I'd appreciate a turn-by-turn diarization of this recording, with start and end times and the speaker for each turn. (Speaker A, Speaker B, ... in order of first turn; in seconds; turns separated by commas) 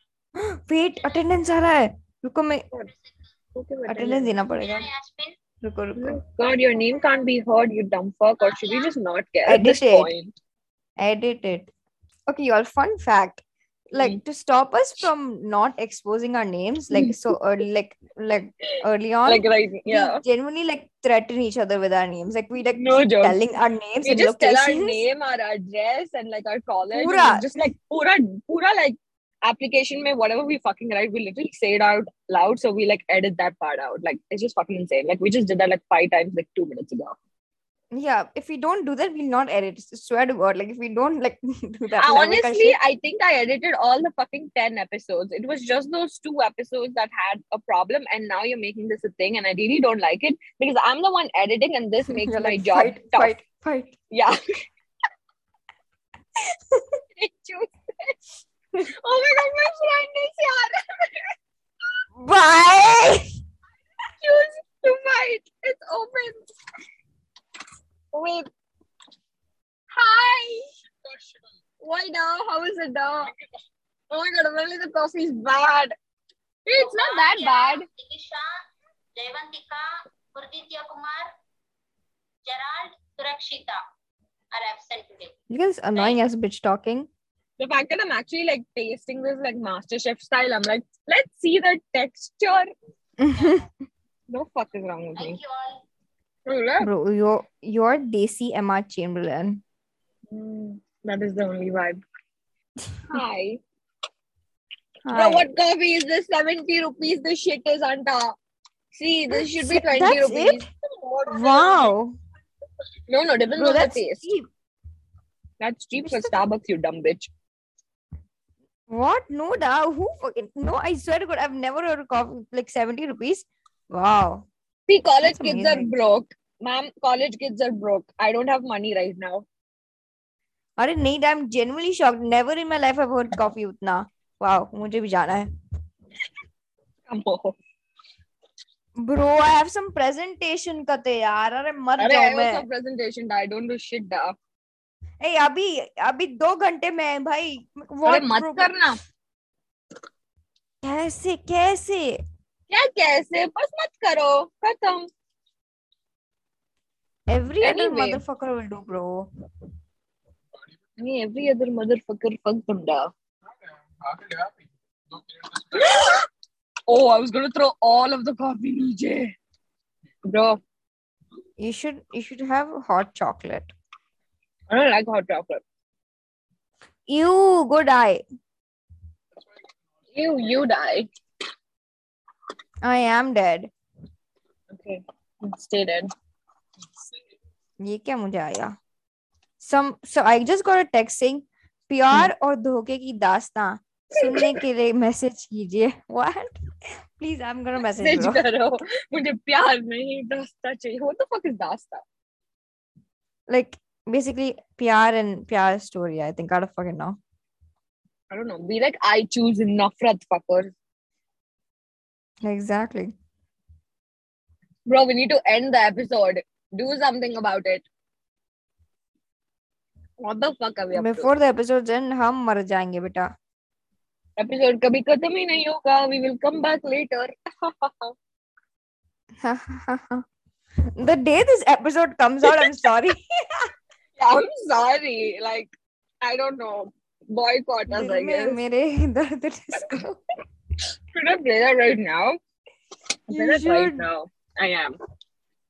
Speaker A: 0.3-2.6, Speaker B: 3.5-4.3, Speaker A: 3.9-4.9, Speaker C: 4.6-5.4, Speaker A: 5.6-6.2, Speaker B: 6.0-10.3, Speaker C: 8.4-8.9, Speaker A: 9.4-10.1, Speaker A: 11.0-11.7, Speaker A: 12.3-25.0, Speaker B: 16.9-17.2, Speaker B: 19.2-20.2, Speaker B: 22.8-23.4, Speaker B: 24.0-37.2, Speaker A: 26.9-27.6, Speaker A: 37.9-42.8, Speaker B: 42.0-53.4, Speaker A: 52.1-54.0, Speaker B: 54.1-54.4, Speaker A: 56.4-57.0, Speaker B: 57.2-58.2, Speaker B: 58.8-61.3, Speaker A: 62.2-63.3, Speaker B: 64.2-66.5, Speaker B: 68.1-68.5, Speaker B: 69.9-70.7, Speaker B: 71.8-73.3, Speaker B: 74.1-75.9, Speaker B: 76.7-77.9, Speaker C: 76.7-78.6, Speaker C: 79.2-81.3, Speaker C: 82.4-83.8, Speaker C: 84.5-85.3, Speaker A: 85.5-87.1, Speaker B: 87.6-92.7, Speaker A: 93.2-93.7, Speaker B: 94.3-95.4, Speaker C: 95.2-95.8, Speaker B: 96.5-96.9, Speaker A: 96.8-99.6, Speaker B: 100.3-102.0, Speaker A: 102.9-103.2, Speaker B: 103.1-103.6, Speaker A: 105.0-105.5, Speaker B: 105.1-108.3, Speaker B: 108.9-111.9, Speaker A: 109.3-110.7, Speaker A: 111.3-112.2, Speaker B: 113.1-114.3, Speaker A: 113.6-114.5, Speaker B: 115.6-117.3, Speaker A: 118.9-124.5, Speaker B: 124.9-129.4, Speaker A: 125.2-125.9, Speaker A: 130.8-135.5, Speaker B: 137.1-137.6, Speaker A: 139.0-142.6, Speaker B: 142.0-144.3, Speaker A: 145.2-148.7, Speaker B: 148.0-149.0, Speaker A: 150.8-152.2, Speaker B: 152.7-155.1, Speaker A: 157.3-159.3, Speaker B: 157.6-158.2, Speaker B: 161.0-163.1, Speaker B: 164.0-164.5, Speaker B: 165.5-166.3, Speaker B: 166.9-169.3, Speaker B: 170.3-170.6, Speaker A: 171.6-173.7, Speaker B: 174.7-175.6, Speaker A: 177.1-178.2, Speaker B: 180.1-181.1, Speaker A: 182.8-183.7, Speaker B: 184.7-186.1, Speaker A: 187.8-188.8, Speaker A: 189.6-196.6, Speaker A: 197.2-198.4, Speaker B: 197.9-202.0, Speaker A: 203.5-207.2, Speaker B: 208.3-210.7, Speaker A: 212.4-213.1, Speaker B: 214.9-217.8, Speaker B: 220.2-221.3, Speaker A: 220.9-223.3, Speaker B: 224.4-228.1, Speaker A: 229.4-230.2, Speaker A: 230.9-233.7, Speaker B: 234.2-238.6, Speaker A: 237.9-240.2, Speaker B: 241.1-242.4, Speaker B: 243.3-245.0, Speaker A: 243.3-244.0